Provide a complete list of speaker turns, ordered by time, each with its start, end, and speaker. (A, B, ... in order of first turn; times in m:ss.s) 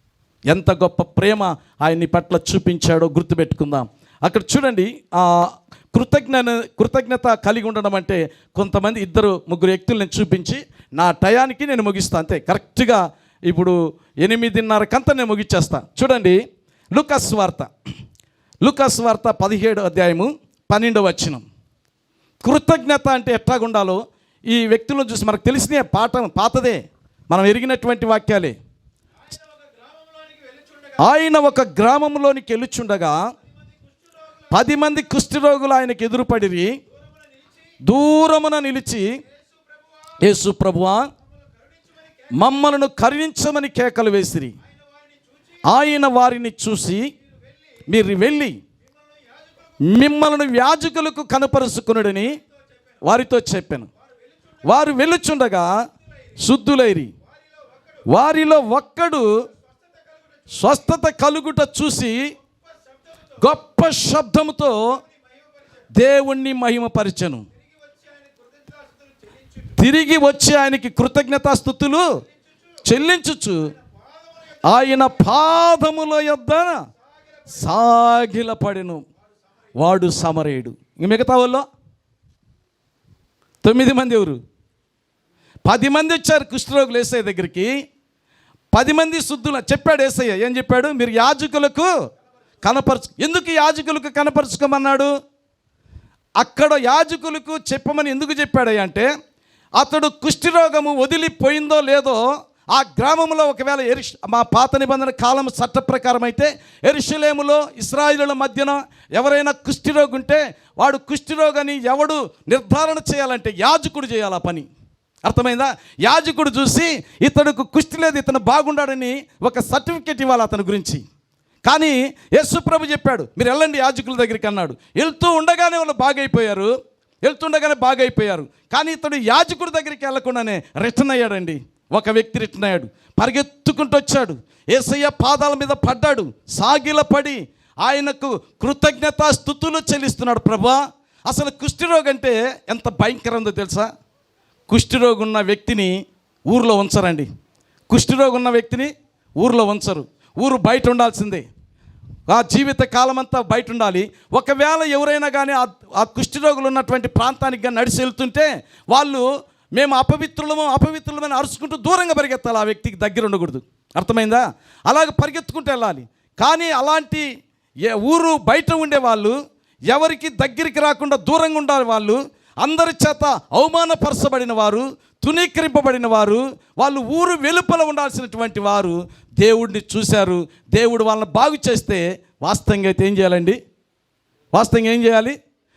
0:00.5-0:16.4 A
0:16.9-0:17.7 A
0:18.6-0:21.4 A
0:22.4-0:28.6 A
0:29.2-0:31.2 B
0:31.0-0:33.2 A
0:33.4-0:34.9 B
0:34.5-0:36.8 A
0:36.9-0:37.8 B
0:37.8-0:39.2 A
0:39.2-0:40.3 B
0:40.2-0:41.1 A
0:41.2-0:42.5 B
0:42.3-0:44.6 A
0:44.6-0:45.7 B
0:45.6-0:47.1 A
0:47.2-0:48.0 B
0:47.9-0:48.6 A
0:48.8-0:49.9 B
0:49.8-0:52.4 A
0:52.3-0:53.1 B
0:53.0-0:53.9 A
0:54.0-0:54.8 B
0:54.6-0:55.7 A
0:56.0-0:56.4 B
0:56.4-0:57.1 A
0:57.2-0:58.1 B
0:58.1-0:59.4 A
0:59.5-1:01.0 B
1:00.5-1:02.3 A
1:02.4-1:03.5 B
1:03.4-1:05.0 A
1:04.9-1:05.9 B
1:05.9-1:07.4 A
1:07.6-1:09.8 B
1:09.8-1:12.2 A
1:12.3-1:12.9 B
1:12.8-1:13.7 A
1:13.6-1:15.4 B
1:14.6-1:16.8 A
1:17.0-1:17.7 B
1:17.5-1:19.0 A
1:19.4-1:19.7 B
1:19.8-1:21.6 A
1:23.6-1:24.4 A
1:25.6-1:27.7 A
1:28.7-1:31.9 A
1:32.6-1:35.1 A
1:36.4-1:39.1 A
1:39.8-1:54.6 A
1:55.2-2:01.0 A
2:01.6-2:06.7 A
2:07.2-2:23.9 A
2:24.7-2:25.9 A
2:26.5-2:27.3 A
2:27.9-2:31.4 A
2:32.3-2:47.2 A
2:47.8-2:49.4 A
2:49.9-3:03.6 A
3:04.5-3:05.4 A